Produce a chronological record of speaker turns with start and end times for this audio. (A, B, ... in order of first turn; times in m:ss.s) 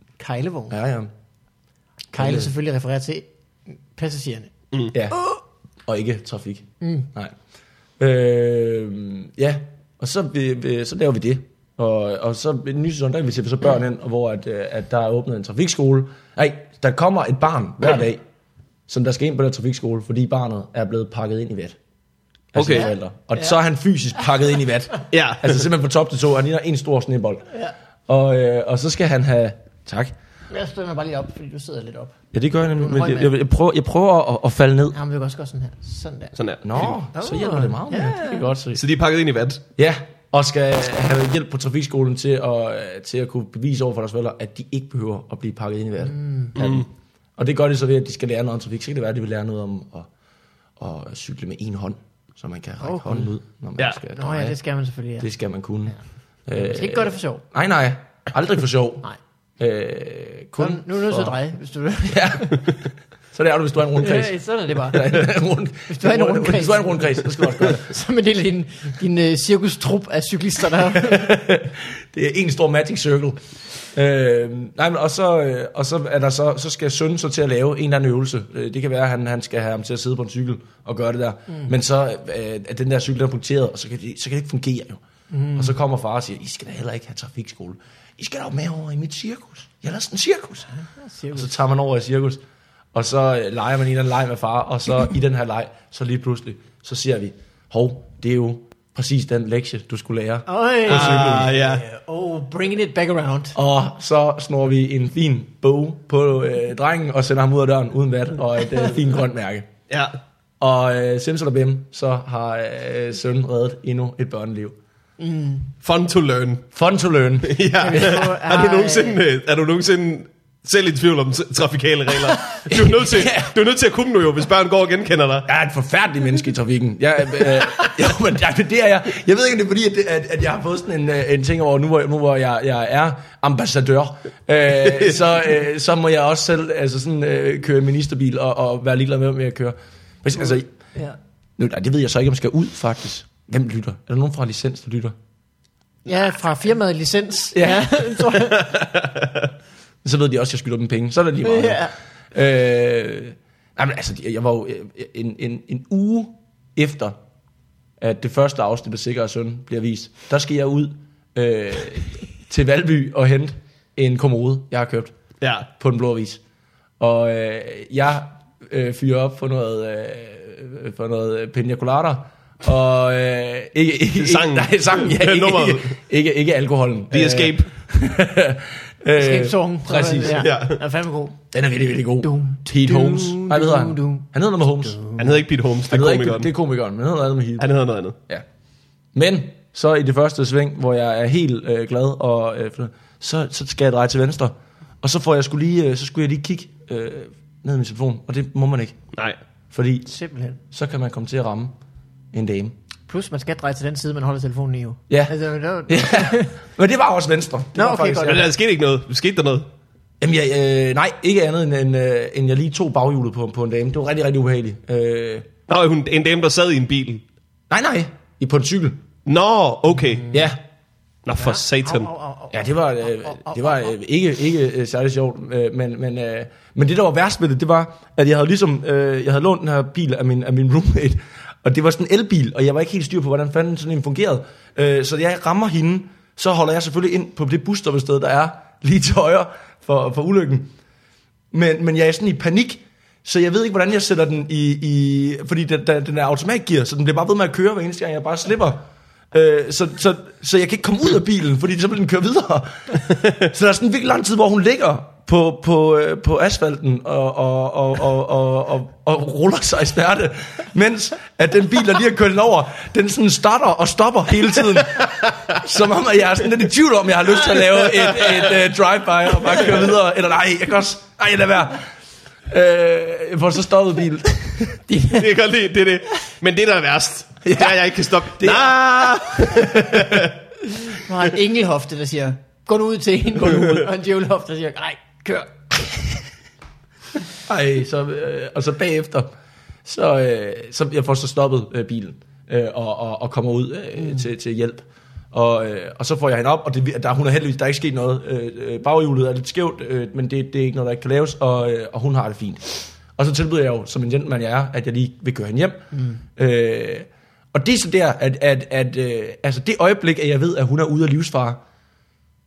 0:00.2-0:00.8 A
0:00.7-0:01.1 B
0:02.1-0:03.2 A
0:02.1-0:02.5 B
0:03.9-0:04.5 A
0:04.9-0:05.3 B
0:05.9-0:07.3 B
0:06.8-0:07.1 A
0:08.0-0:18.2 B
0:18.9-0:21.8 B
0:22.5-0:27.5 B
0:22.5-0:22.9 C
0:22.8-0:23.6 A
0:25.1-0:25.6 C
0:28.1-0:30.1 B
0:30.5-0:32.2 A
0:32.3-0:35.0 B
0:32.8-0:33.3 A
0:34.9-0:36.4 A
0:36.4-0:37.0 C
0:36.6-0:38.8 B
0:37.1-0:38.5 A
0:38.7-0:39.6 C
0:39.8-0:46.9 B
0:46.0-0:46.5 A
0:46.5-0:46.9 C
0:47.4-0:50.1 B
0:50.8-0:54.6 B
0:52.8-0:53.3 A
0:54.1-0:55.3 A
0:55.2-0:56.0 B
0:56.5-0:59.1 B
0:56.5-0:57.4 A
0:59.6-1:01.4 B
1:00.6-1:02.7 A
1:02.1-1:07.9 B
1:04.0-1:05.3 A
1:05.9-1:11.3 A
1:10.9-1:13.4 B
1:13.9-1:25.0 B
1:25.3-1:25.7 A
1:25.5-1:30.7 B
1:30.8-1:31.5 A
1:31.3-1:32.4 B
1:32.9-1:41.5 B
1:40.5-1:43.6 A
1:40.9-1:41.8 C
1:43.5-1:49.7 B
1:49.9-1:50.1 C
1:50.6-1:54.8 B
1:55.2-1:55.7 A
1:55.8-1:56.6 C
1:56.7-1:57.7 B
1:57.4-2:05.5 C
1:57.8-1:59.2 A
2:02.3-2:02.6 A
2:02.7-2:03.5 B
2:05.5-2:20.7 B
2:14.8-2:15.2 C
2:21.6-2:25.1 B
2:26.0-2:28.8 A
2:27.5-2:28.5 B
2:28.7-2:29.5 C
2:30.0-2:37.2 B
2:31.4-2:31.9 A
2:38.0-2:45.1 B
2:45.4-2:45.7 C
2:45.7-2:46.4 B
2:47.0-3:00.4 B
2:54.1-2:56.0 C
2:57.1-2:57.7 C
2:59.1-3:01.4 A
3:00.2-3:00.8 C
3:01.5-3:05.0 B
3:02.2-3:04.2 A
3:04.9-3:05.2 A
3:05.2-3:06.5 C
3:05.9-3:07.7 B
3:07.6-3:08.2 C
3:09.1-3:19.0 B
3:19.7-3:20.1 B
3:20.1-3:20.6 A
3:20.7-3:21.8 B
3:22.3-3:22.8 B
3:23.1-3:26.6 A
3:25.1-3:25.4 B
3:25.9-3:28.5 B
3:27.8-3:28.5 A
3:28.2-3:29.7 C
3:30.2-3:35.5 B
3:35.7-3:37.2 C
3:37.7-3:39.0 B
3:39.2-3:40.4 C
3:40.3-3:40.6 B
3:41.2-3:42.1 C
3:41.4-3:43.9 A
3:42.5-4:00.7 B
4:01.5-4:31.9 B
4:32.5-4:34.8 B
4:34.9-4:35.2 A
4:35.1-4:40.3 C
4:37.4-4:40.3 B
4:40.9-4:46.2 A
4:43.4-4:43.9 B
4:47.4-4:49.3 B
4:49.8-5:05.8 B
5:05.9-5:06.2 A
5:06.4-5:11.6 B